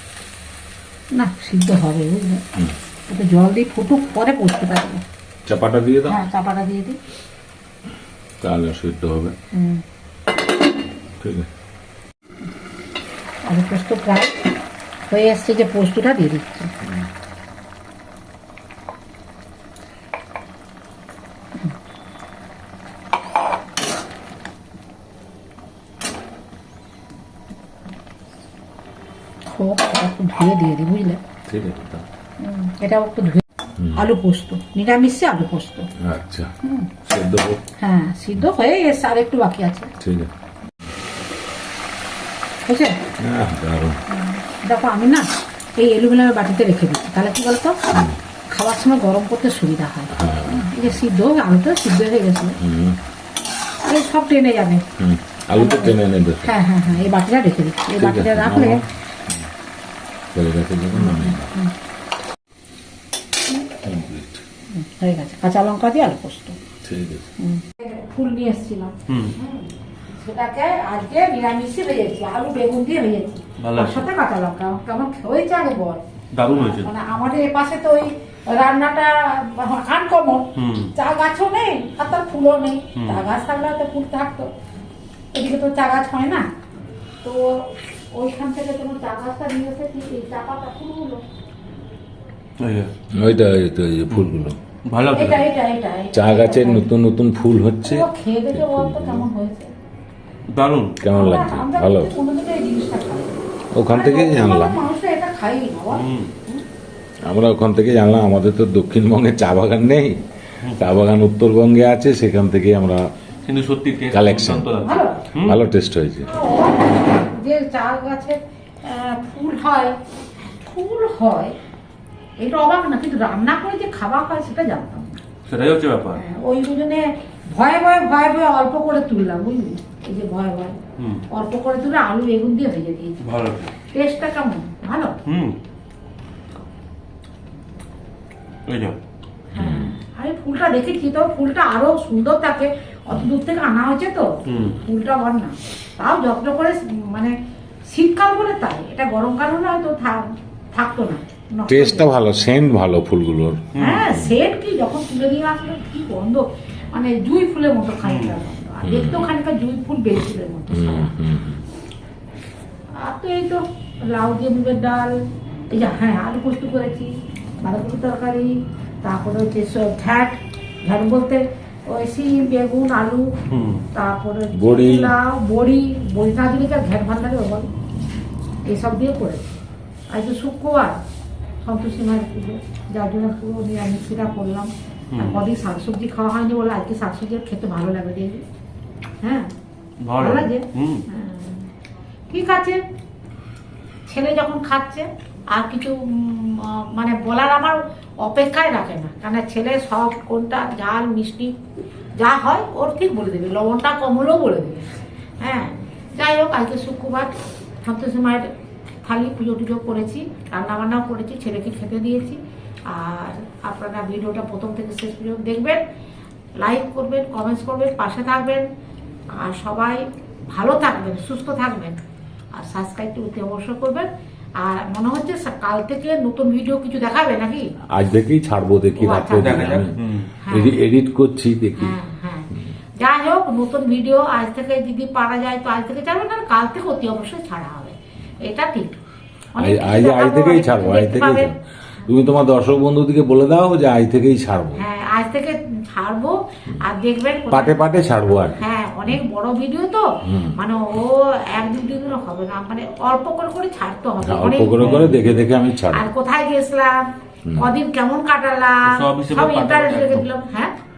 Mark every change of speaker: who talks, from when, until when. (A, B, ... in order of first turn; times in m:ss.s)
0:01.1-0:02.4 A
0:03.1-0:05.0 A
0:05.5-0:06.2 B
0:06.1-0:07.0 A
0:08.4-0:09.4 B
0:09.5-0:09.8 A
0:11.2-0:11.5 B
0:13.4-0:14.4 A
0:15.1-0:16.7 A
0:29.5-0:31.2 A
0:31.5-0:32.1 B
0:32.4-0:33.4 A
0:33.8-0:34.1 B
0:34.0-0:35.9 A
0:36.0-0:36.5 B
0:36.6-0:36.9 A
0:37.0-0:37.6 B
0:37.8-0:39.9 A
0:40.0-0:40.3 B
0:42.7-0:43.0 A
0:43.2-0:44.0 B
0:44.1-0:47.8 A
0:47.9-0:48.2 B
0:48.5-0:52.6 A
0:50.1-0:51.0 B
0:52.6-0:53.0 B
0:53.8-0:54.8 A
0:55.0-0:56.6 B
0:55.5-0:58.8 A
0:58.0-0:59.5 B
1:00.3-1:01.5 B
1:00.9-1:01.7 A
1:03.8-1:04.4 B
1:04.7-1:06.6 A
1:06.8-1:07.3 B
1:07.4-1:24.5 A
1:09.1-1:09.4 C
1:13.6-1:14.1 C
1:16.3-1:16.9 C
1:20.6-1:20.9 C
1:23.0-1:23.3 C
1:25.3-1:26.5 A
1:27.2-1:31.2 A
1:32.6-1:32.9 C
1:33.1-1:34.6 B
1:34.9-1:35.5 C
1:35.1-1:36.9 A
1:36.1-1:39.3 B
1:37.8-1:39.7 A
1:40.5-1:41.0 C
1:41.0-1:42.1 B
1:41.1-1:43.4 A
1:43.8-1:44.8 B
1:43.9-1:46.6 A
1:45.9-1:46.3 C
1:47.2-1:53.0 B
1:53.4-1:55.6 C
1:54.1-1:54.7 B
1:54.7-1:55.2 A
1:55.4-1:56.3 B
1:56.2-2:00.0 A
2:00.5-2:01.5 A
2:02.4-2:05.2 A
2:05.5-2:06.2 C
2:06.1-2:10.8 A
2:11.0-2:11.2 C
2:11.3-2:13.2 A
2:13.2-2:13.7 C
2:13.9-2:15.2 A
2:15.3-2:15.6 C
2:18.7-2:19.0 C
2:19.6-2:20.0 B
2:19.6-2:27.4 A
2:24.5-2:24.8 C
2:27.9-2:32.1 A
2:31.7-2:34.4 B
2:33.7-2:34.0 C
2:33.8-2:41.1 A
2:38.0-2:38.4 C
2:38.8-2:39.3 B
2:40.7-2:41.6 B
2:43.0-2:45.1 A
2:45.7-2:53.3 A
2:53.5-2:53.8 C
2:53.9-2:57.7 A
2:54.5-2:55.2 B
2:58.7-2:59.6 A
3:00.1-3:01.0 A
3:01.6-3:08.4 A
3:05.1-3:05.4 C
3:09.2-3:09.5 A
3:10.0-3:11.0 C
3:10.2-3:11.7 A
3:12.3-3:12.8 A
3:14.1-3:21.6 A
3:22.2-3:28.5 A
3:29.0-3:35.8 A
3:36.6-3:38.7 A
3:39.3-3:42.0 A
3:42.5-3:47.7 A
3:47.9-3:49.9 B
3:49.0-3:49.8 A
3:49.3-3:50.3 C
3:50.4-3:50.8 A
3:50.5-3:52.0 B
3:51.8-3:58.9 A
3:59.6-4:01.5 A
3:59.6-4:04.8 B
4:04.8-4:07.9 A
4:07.5-4:08.6 B
4:08.6-4:15.2 A
4:10.2-4:10.6 B
4:14.2-4:16.1 B
4:14.7-4:15.2 C
4:15.9-4:17.0 A
4:17.4-4:17.7 B
4:17.6-4:20.7 A
4:18.9-4:20.3 C